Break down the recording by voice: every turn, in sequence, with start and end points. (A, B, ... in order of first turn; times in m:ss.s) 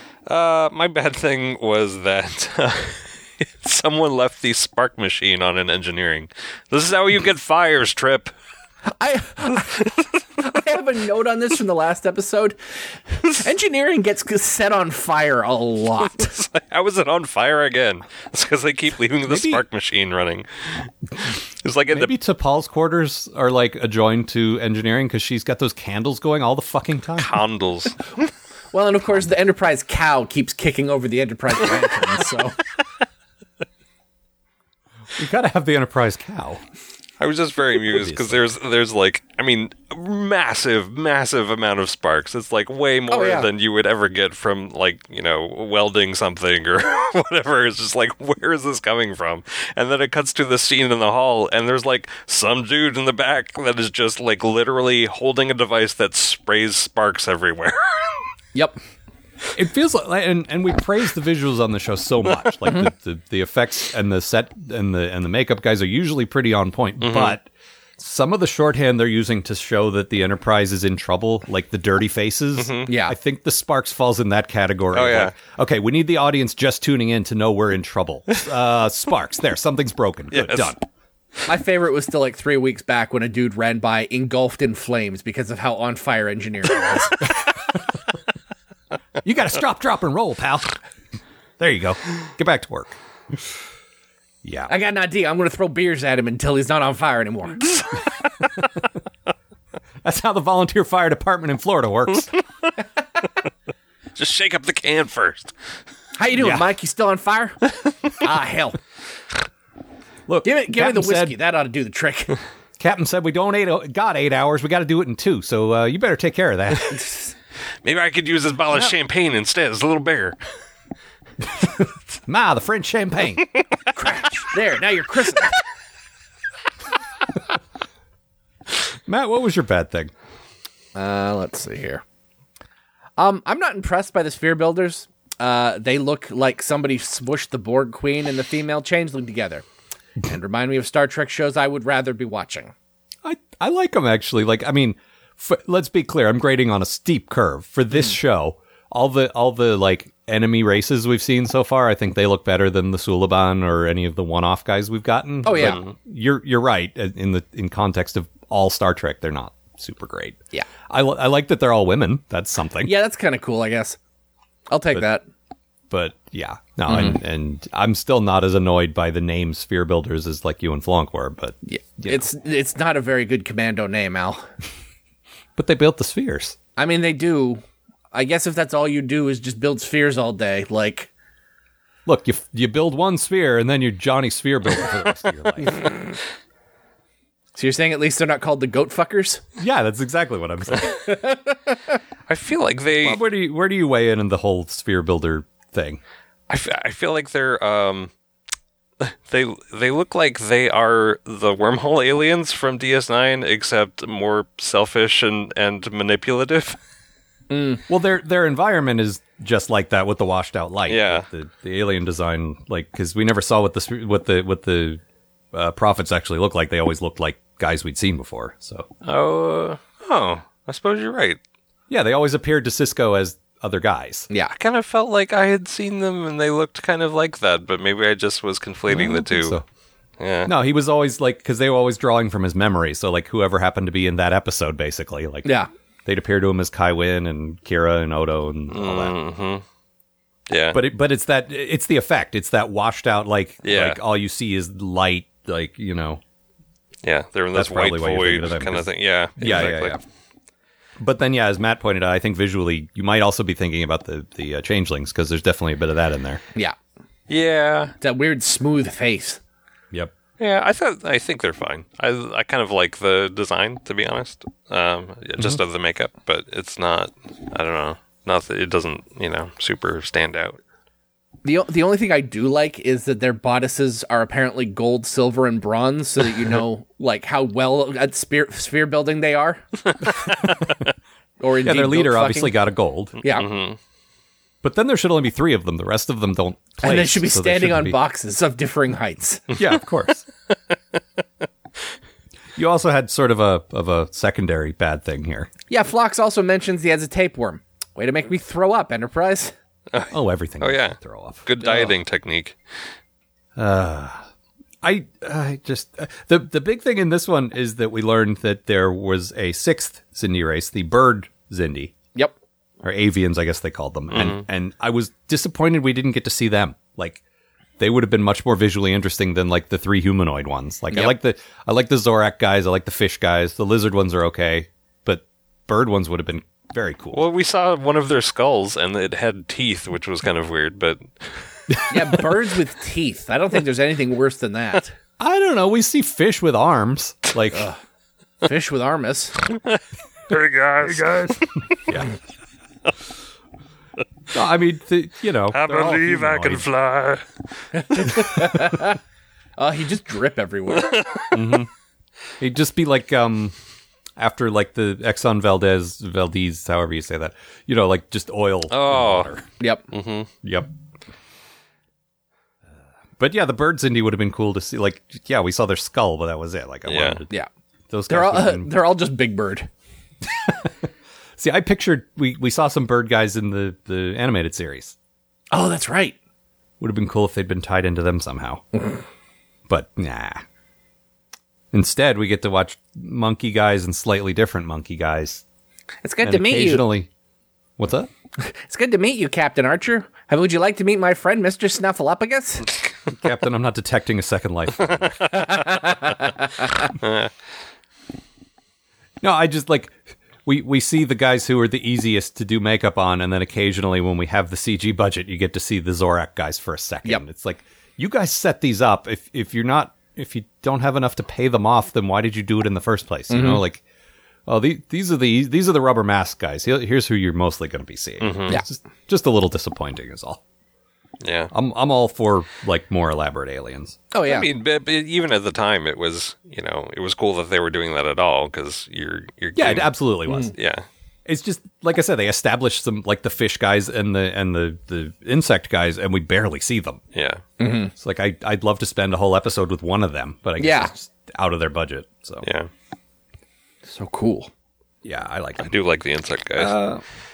0:00.3-0:08.3 A
0:09.0-0:09.8 B
0:10.4-0:12.6 B
0:13.3-0:16.3 B
0:16.3-0:20.4 A
0:19.2-0:19.6 C
0:21.6-0:22.1 A
0:21.9-0:27.4 C
0:27.2-0:28.0 A
0:28.7-0:32.6 B
0:35.2-0:36.6 C
0:37.2-0:58.2 A
0:37.8-0:38.4 C
0:43.1-0:43.5 B
0:59.5-1:07.5 C
1:07.0-1:07.4 A
1:08.0-1:20.8 C
1:12.6-1:12.9 A
1:12.9-1:13.2 B
1:14.9-1:15.4 A
1:20.3-1:20.7 A
1:21.5-1:27.3 B
1:29.2-1:30.8 C
1:31.6-1:33.0 C
1:34.4-1:34.7 C
1:34.7-1:37.8 B
1:40.0-1:42.3 C
1:44.1-1:45.5 A
1:46.2-1:48.8 B
1:46.4-1:46.6 C
1:50.3-1:51.4 C
1:50.4-1:52.4 B
1:52.8-1:57.0 C
1:57.8-2:00.4 A
2:01.6-2:03.5 C
2:03.9-2:05.6 B
2:09.0-2:10.1 C
2:10.9-2:12.0 B
2:13.2-2:19.6 B
2:20.2-2:22.7 B
2:23.2-2:42.9 C
2:35.4-2:35.8 B
2:35.6-2:35.9 A
2:42.8-2:44.0 B
2:44.7-2:45.2 B
2:45.9-2:52.3 C
2:46.9-2:47.2 B
2:51.6-2:54.4 B
2:55.6-2:56.6 C
2:56.8-3:01.1 B
3:02.0-3:05.8 C
3:07.6-3:09.4 B
3:09.6-3:11.1 C
3:12.3-3:13.2 A
3:13.0-3:16.0 C
3:16.5-3:18.1 A
3:19.0-3:26.8 A
3:27.5-3:27.8 B
3:27.9-3:35.0 C
3:30.9-3:31.2 A
3:35.5-3:38.9 C
3:39.0-3:41.4 A
3:41.9-3:44.3 C
3:44.5-3:49.6 A
3:48.9-3:49.6 C
3:50.2-3:50.5 A
3:50.4-3:55.5 C
3:56.0-3:59.1 C
3:58.7-3:59.6 A
4:00.5-4:00.8 A
4:00.7-4:06.2 C
4:03.6-4:04.0 A
4:07.0-4:10.0 A
4:07.5-4:10.0 C
4:11.0-4:16.4 C
4:17.3-4:17.9 A
4:18.0-4:19.4 B
4:20.4-4:30.6 A
4:31.4-4:39.6 B
4:41.4-4:42.6 B
4:41.6-4:43.2 C
4:43.2-4:43.5 B
4:43.3-4:43.8 A
4:44.6-4:48.0 C
4:46.8-4:49.4 B
4:49.5-4:50.2 C
4:52.6-4:55.5 C
4:55.7-4:59.5 B
4:59.9-5:02.6 A
5:00.1-5:01.4 C
5:01.6-5:01.9 B
5:03.6-5:04.3 C
5:04.8-5:11.9 C
5:12.8-5:17.2 C
5:14.1-5:14.4 A
5:17.8-5:27.2 C
5:27.1-5:31.8 A
5:31.9-5:34.9 B
5:35.2-5:37.7 C
5:38.4-5:39.4 B
5:39.6-5:41.8 A
5:41.0-5:41.3 C
5:41.9-5:42.1 C
5:44.3-5:46.6 C
5:45.5-5:47.2 A
5:47.7-5:49.0 B
5:49.6-5:51.0 B
5:50.9-5:51.4 A
5:51.3-5:51.7 C
5:52.4-5:53.5 C
5:54.2-5:59.4 C
5:58.7-5:59.3 A
5:59.9-6:00.3 A
6:00.4-6:00.7 C
6:03.2-6:07.3 C
6:06.9-6:07.2 A
6:07.9-6:08.7 C
6:08.1-6:09.7 B
6:10.4-6:14.9 C
6:15.5-6:16.2 B
6:16.8-6:18.6 C
6:19.7-6:20.4 C
6:21.7-6:25.4 C
6:26.0-6:26.9 B
6:26.2-6:27.1 C
6:27.8-6:28.1 C
6:28.4-6:32.7 B
6:33.1-6:35.2 C
6:35.6-6:36.2 B
6:37.0-6:37.3 A
6:39.2-6:53.8 C
6:53.3-6:53.6 B
6:54.5-7:00.4 C
6:58.2-6:58.6 A
7:01.2-7:01.5 A
7:01.5-7:04.0 C
7:04.1-7:04.5 B
7:04.2-7:09.9 A
7:09.6-7:10.5 C
7:10.5-7:10.8 A
7:11.2-7:17.0 C
7:17.1-7:17.4 A
7:17.6-7:17.9 B
7:18.0-7:22.5 C
7:20.6-7:20.9 B
7:22.4-7:22.7 A
7:23.8-7:24.5 B
7:25.0-7:25.7 C
7:25.6-7:26.7 A
7:26.6-7:27.0 C